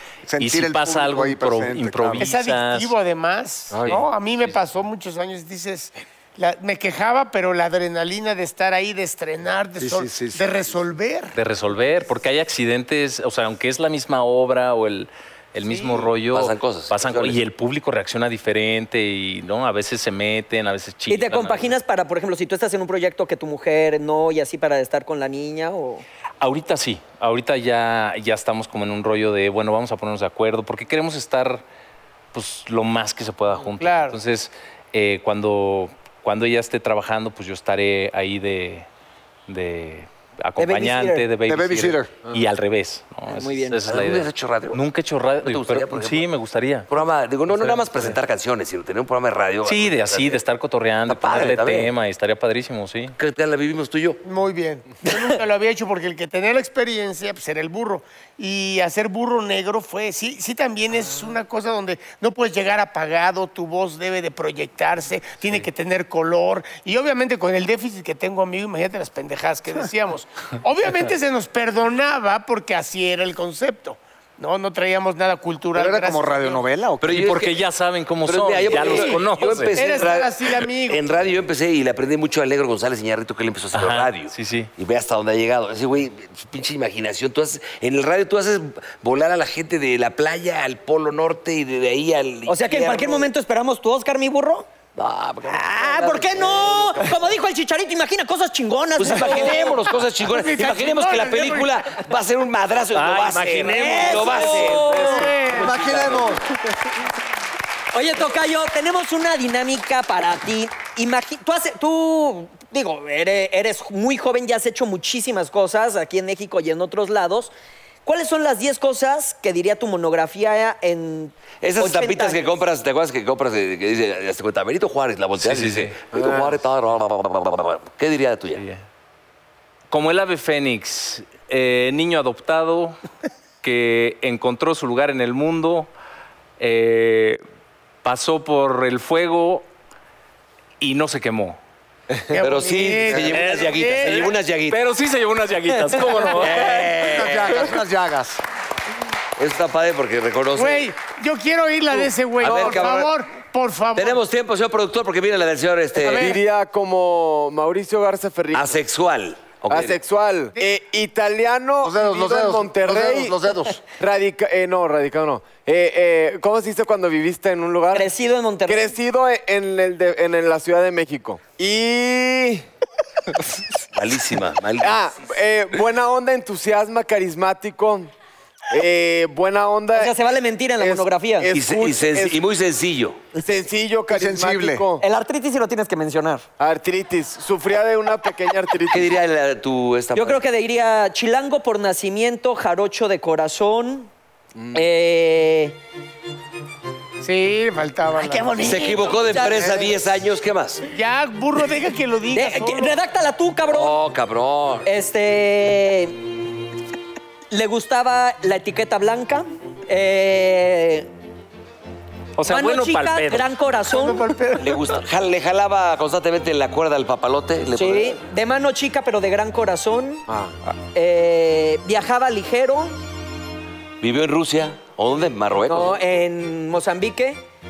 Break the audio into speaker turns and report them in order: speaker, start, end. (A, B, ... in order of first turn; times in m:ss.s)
0:00.3-0:02.3 A
0:00.4-0:02.9 B
0:02.2-0:11.4 C
0:03.7-0:04.0 D
0:03.8-0:04.6 B
0:09.8-0:10.5 A
0:11.4-0:21.8 B
0:15.6-0:16.1 C
0:16.3-0:17.4 E
0:21.1-0:26.0 F
0:26.4-0:31.6 B
0:32.3-0:38.9 B
0:33.8-0:34.2 C
0:39.5-0:46.9 B
0:40.6-0:41.3 F
0:41.5-0:42.1 A
0:43.3-0:43.9 F
0:43.9-0:44.8 E
0:45.4-0:46.3 E
0:46.9-0:50.4 E
0:49.6-0:53.2 B
0:51.1-0:51.9 E
0:53.2-0:54.2 E
0:54.2-1:16.6 C
1:15.8-1:17.4 A
1:17.0-1:17.6 E
1:17.0-1:19.8 B
1:18.3-1:33.3 E
1:18.7-1:21.0 C
1:23.7-1:24.7 B
1:32.5-1:34.7 F
1:35.0-1:37.2 E
1:35.5-1:39.8 F
1:39.0-1:46.4 E
1:39.1-1:41.8 C
1:42.9-1:45.2 B
1:43.7-1:45.3 F
1:43.7-1:45.8 C
1:45.5-1:46.5 A
1:47.9-1:57.5 F
1:58.0-2:02.5 F
2:01.6-2:08.6 E
2:05.4-2:06.0 B
2:06.1-2:06.6 D
2:08.6-2:08.8 B
2:09.9-2:13.0 B
2:13.6-2:15.9 B
2:16.6-2:17.4 B
2:18.0-2:19.7 B
2:20.8-2:21.6 B
2:22.3-2:24.3 C
2:22.3-2:24.8 E
2:23.3-2:27.6 B
2:26.2-2:27.8 E
2:26.5-2:28.4 A
2:29.4-2:30.9 E
2:30.5-2:34.2 C
2:32.4-2:33.1 E
2:34.0-2:36.4 E
2:36.0-2:36.4 C
2:36.2-2:38.8 D
2:38.5-2:40.0 E
2:39.7-2:48.1 D
2:41.8-2:43.8 A
2:47.9-2:48.9 F
2:48.7-2:52.6 D
2:53.9-2:55.0 E
2:54.8-2:58.1 D
2:58.7-3:00.2 D
2:59.9-3:01.5 F
3:00.8-3:02.4 D
3:01.5-3:03.2 E
3:03.3-3:05.0 D
3:04.1-3:04.8 A
3:05.0-3:06.5 F
3:06.6-3:09.1 D
3:08.9-3:10.4 E
3:10.2-3:14.1 F
3:14.6-3:14.8 D
3:14.7-3:15.8 F
3:17.2-3:18.7 C
3:18.2-3:19.9 F
3:18.6-3:20.8 E
3:20.9-3:23.0 C
3:22.3-3:24.0 F
3:23.7-3:24.9 E
3:24.8-3:26.2 F
3:27.5-3:31.1 F
3:32.4-3:33.5 B
3:32.5-3:34.3 F
3:33.9-3:34.8 C
3:34.6-3:38.2 E
3:37.8-3:43.0 F
3:40.3-3:40.6 D
3:44.0-3:46.0 E
3:45.7-3:47.4 F